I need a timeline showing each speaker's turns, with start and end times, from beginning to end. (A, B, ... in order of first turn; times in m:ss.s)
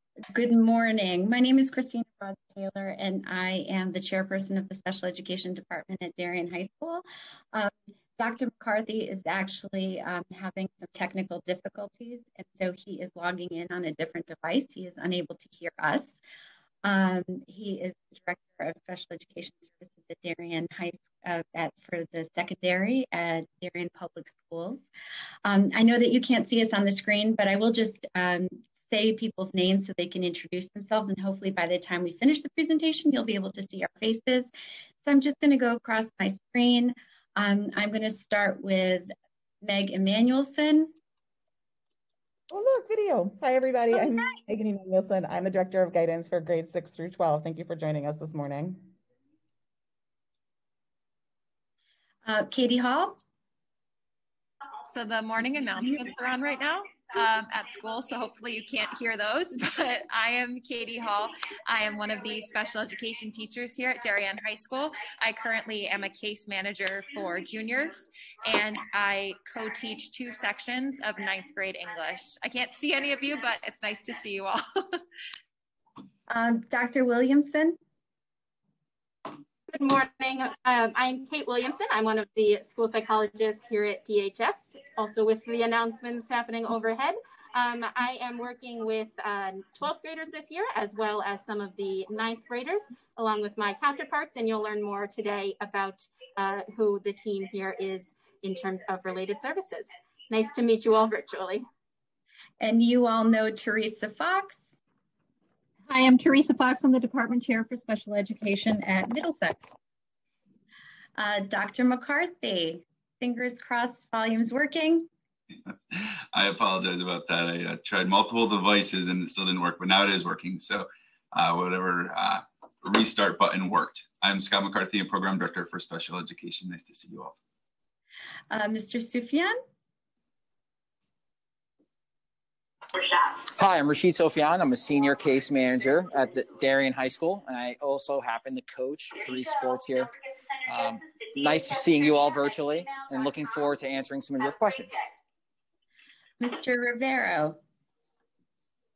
0:00.3-0:16.2 A
0:16.8-0:24.9 A
0:25.4-0:40.9 A
0:42.5-0:48.9 B
0:52.2-0:53.2 A
0:54.9-1:15.0 C
1:16.3-1:17.8 A
1:19.7-1:41.6 D
1:42.6-1:44.8 A
1:45.9-1:49.8 E
1:51.2-1:55.1 A
1:55.7-2:07.4 F
2:08.5-2:09.6 A
2:13.4-2:25.1 G
2:26.4-2:27.6 A